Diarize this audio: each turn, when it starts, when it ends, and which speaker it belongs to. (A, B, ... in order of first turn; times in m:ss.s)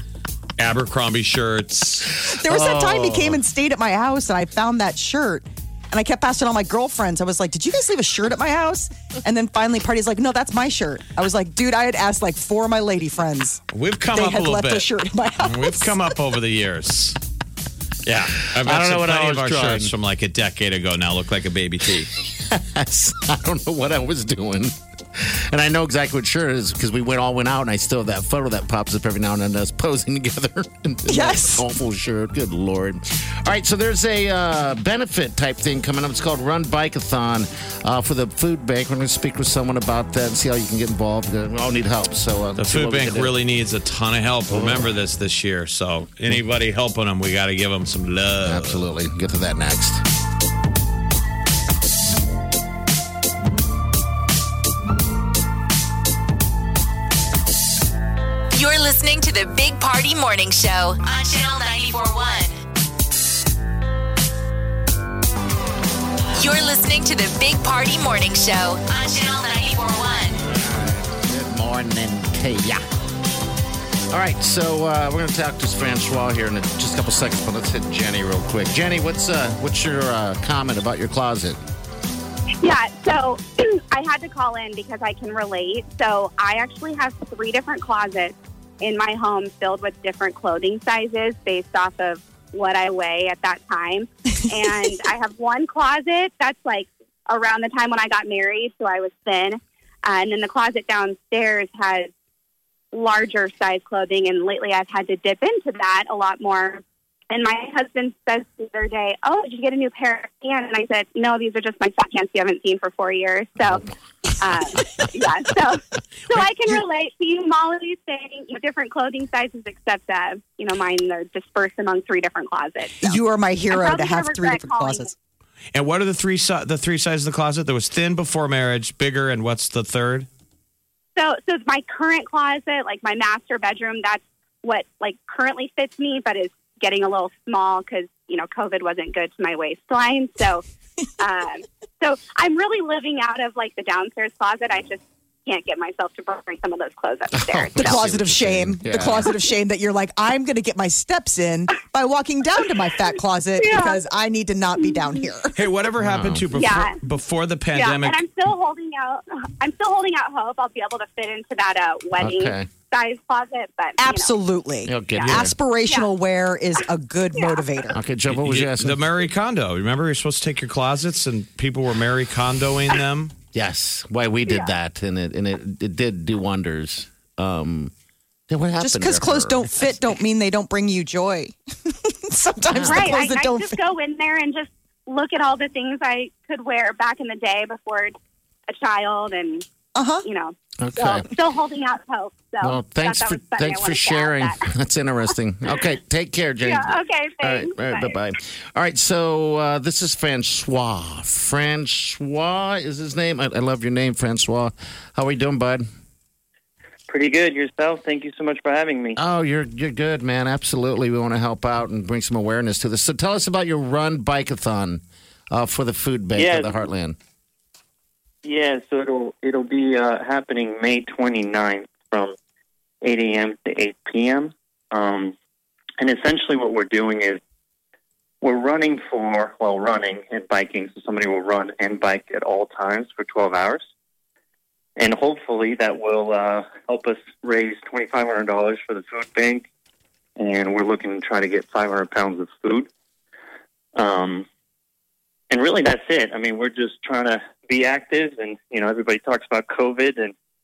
0:00.6-0:02.1 A
0:02.2-0:03.4 B
0:02.3-0:13.6 C
0:13.7-0:14.9 A
0:14.1-0:16.0 C
0:15.4-0:17.2 A
0:18.0-0:22.1 A
0:18.5-0:19.9 B
0:22.2-0:43.3 B
0:31.1-0:31.6 C
0:42.6-0:48.8 A
0:44.5-0:44.9 B
0:48.4-0:50.0 B
0:58.5-1:02.6 D
1:06.4-1:10.4 D
1:10.5-1:12.8 B
1:14.1-1:21.6 B
1:22.6-1:42.1 E
1:42.9-1:53.8 E
1:54.4-2:03.2 E
2:03.0-2:05.1 C
2:03.7-2:05.1 E
2:05.7-2:10.3 A
2:11.2-2:20.6 E
2:21.2-2:28.0 E
2:27.3-2:29.3 B
2:27.8-2:35.5 C
2:33.6-2:34.0 E
2:35.5-2:38.2 A
2:36.0-2:36.4 B
2:36.5-2:37.0 E
2:37.7-2:44.3 E
2:42.2-2:42.7 B
2:44.0-2:48.0 C
2:44.8-2:45.5 B
2:45.1-2:46.1 E
2:47.3-2:47.6 E
2:47.9-2:49.0 B
2:48.3-2:53.3 A
2:53.5-2:57.9 B
2:58.5-3:00.0 B
2:58.8-3:03.8 C
3:02.7-3:03.2 B
3:02.8-3:08.1 E
3:08.7-3:09.6 E
3:09.9-3:10.2 C
3:10.2-3:14.6 E
3:10.8-3:11.3 B
3:12.6-3:25.8 B
3:16.6-3:18.2 E
3:27.1-3:29.2 F
3:29.2-3:37.2 B
3:36.3-3:36.8 F
3:38.4-3:42.3 F
3:43.0-3:45.3 F
3:46.0-3:47.4 F
3:48.4-3:53.8 F
3:55.0-3:59.7 F
4:00.4-4:02.9 F
4:03.9-4:04.4 F
4:05.5-4:10.3 F